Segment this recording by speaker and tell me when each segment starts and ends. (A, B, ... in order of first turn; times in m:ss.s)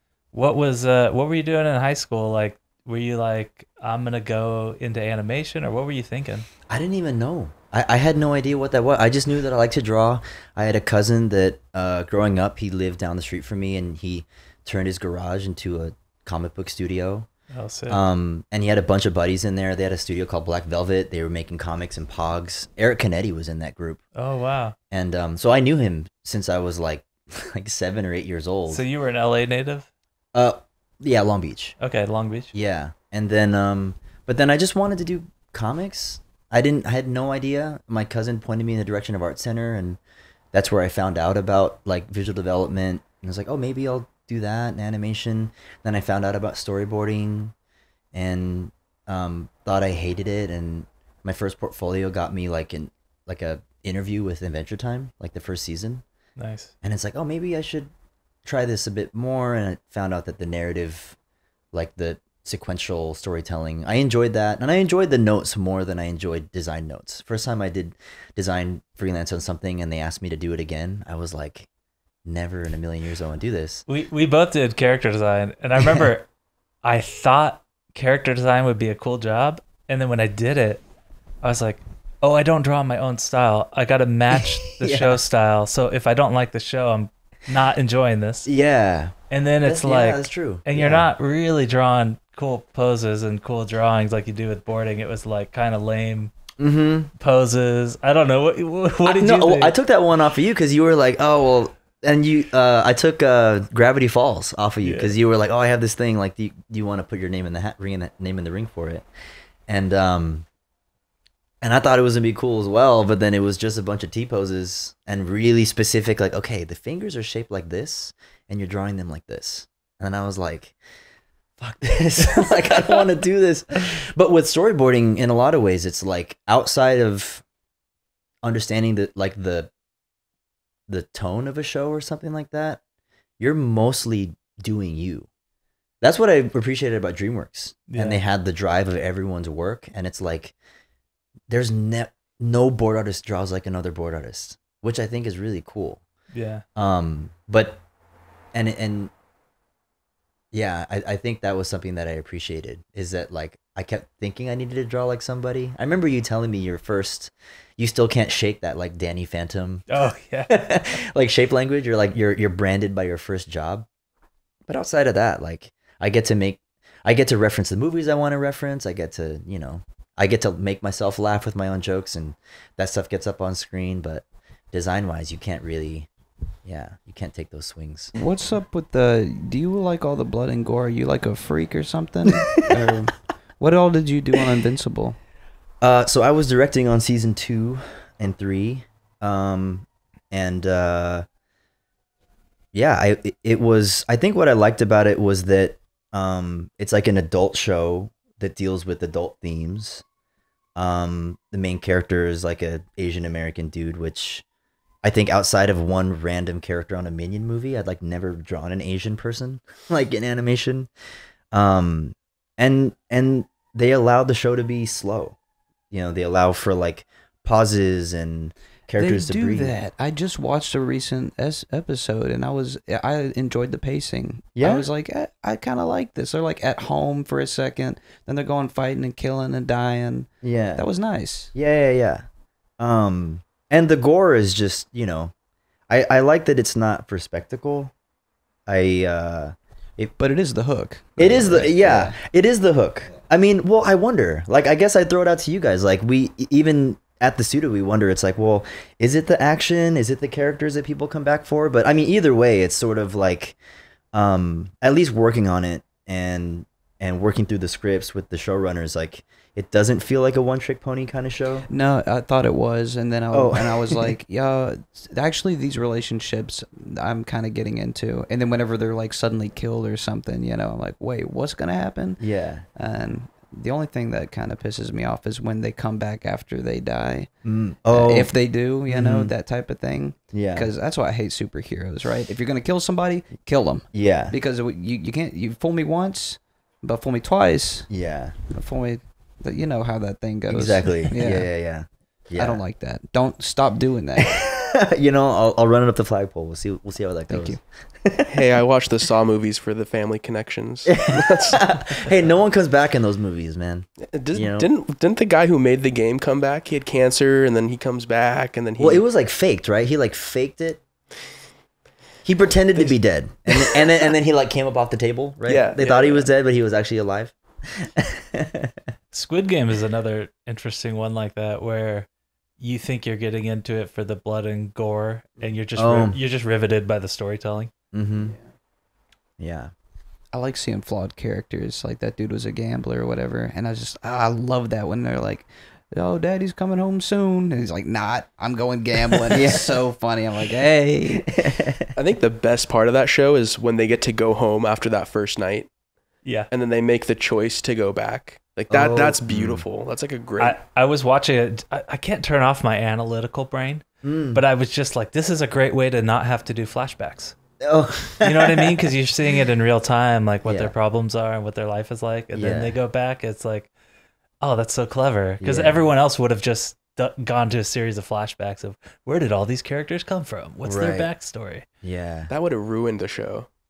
0:00.3-0:06.5 A
0:06.7-0:17.3 B
0:17.5-0:18.0 A
0:17.9-0:24.0 B
0:24.2-0:24.7 A
0:24.9-0:28.8 B
0:28.7-0:29.9 A
0:30.3-0:31.7 B
0:31.8-0:32.5 A
0:32.5-0:40.0 B
0:40.5-0:47.5 B
0:48.1-0:56.0 B
0:56.4-0:56.7 A
0:56.8-0:57.9 B
0:58.4-1:01.2 B
1:01.7-1:11.7 B
1:12.2-1:13.8 B
1:13.9-1:16.3 A
1:15.8-1:16.0 B
1:16.8-1:20.8 A
1:21.4-1:28.5 A
1:24.7-1:25.2 B
1:28.4-1:31.1 B
1:29.3-1:36.3 A
1:36.6-1:37.1 B
1:37.2-1:39.7 A
1:39.0-1:49.0 B
1:44.8-1:45.1 A
1:49.7-1:50.4 B
1:51.6-2:00.7 B
2:01.6-2:07.4 B
2:08.4-2:09.7 B
2:10.9-2:12.8 B
2:13.4-2:15.3 B
2:16.0-2:20.5 B
2:17.9-2:18.2 A
2:21.5-2:26.0 B
2:26.3-2:26.6 A
2:26.7-2:27.8 B
2:28.5-2:29.1 B
2:30.5-2:39.8 B
2:39.9-2:40.5 A
2:40.5-2:43.9 B
2:44.7-2:56.1 B
2:56.6-2:58.1 B
2:58.2-3:05.2 C
3:02.4-3:03.1 B
3:05.8-3:11.2 B
3:12.7-3:20.0 B
3:20.8-3:24.4 B
3:25.0-3:30.9 B
3:31.5-3:35.4 B
3:35.9-3:39.7 B
3:39.0-3:51.5 C
3:44.6-3:44.9 B
3:50.4-3:50.8 B
3:51.5-3:52.2 B
3:52.8-3:55.3 B
3:55.9-3:57.9 B
3:58.7-4:00.1 B
4:00.2-4:02.2 C
4:01.2-4:13.6 B
4:14.1-4:21.7 B
4:21.7-4:32.2 C
4:23.3-4:24.1 B
4:32.2-4:32.6 B
4:32.8-4:37.3 C
4:37.4-4:38.3 B
4:37.9-4:47.9 C
4:38.9-4:39.3 B
4:40.3-4:40.7 B
4:43.9-4:44.3 B
4:47.9-4:48.4 B
4:48.5-4:51.5 C
4:50.5-4:52.6 B
4:52.4-4:54.5 C
4:54.2-4:58.3 B
4:57.3-4:57.6 C
4:58.3-5:02.1 D
5:00.8-5:04.7 B
5:04.1-5:09.0 D
5:08.8-5:10.8 B
5:12.2-5:18.8 B
5:13.5-5:13.8 D
5:15.4-5:16.3 D
5:19.1-5:22.1 A
5:22.6-5:27.7 A
5:25.8-5:26.2 B
5:27.9-5:28.4 B
5:29.4-5:29.7 B
5:30.3-5:41.3 C
5:39.3-5:39.7 B
5:41.1-5:41.9 B
5:42.0-5:45.7 D
5:46.5-5:50.6 D
5:48.7-5:49.6 B
5:50.4-5:57.4 A
5:54.0-5:54.4 B
5:57.6-5:58.9 B
5:58.2-6:03.7 A
6:00.4-6:00.7 B
6:02.3-6:02.7 B
6:04.4-6:11.6 A
6:05.4-6:05.8 B
6:10.6-6:11.1 B
6:11.8-6:12.3 B
6:12.3-6:13.5 D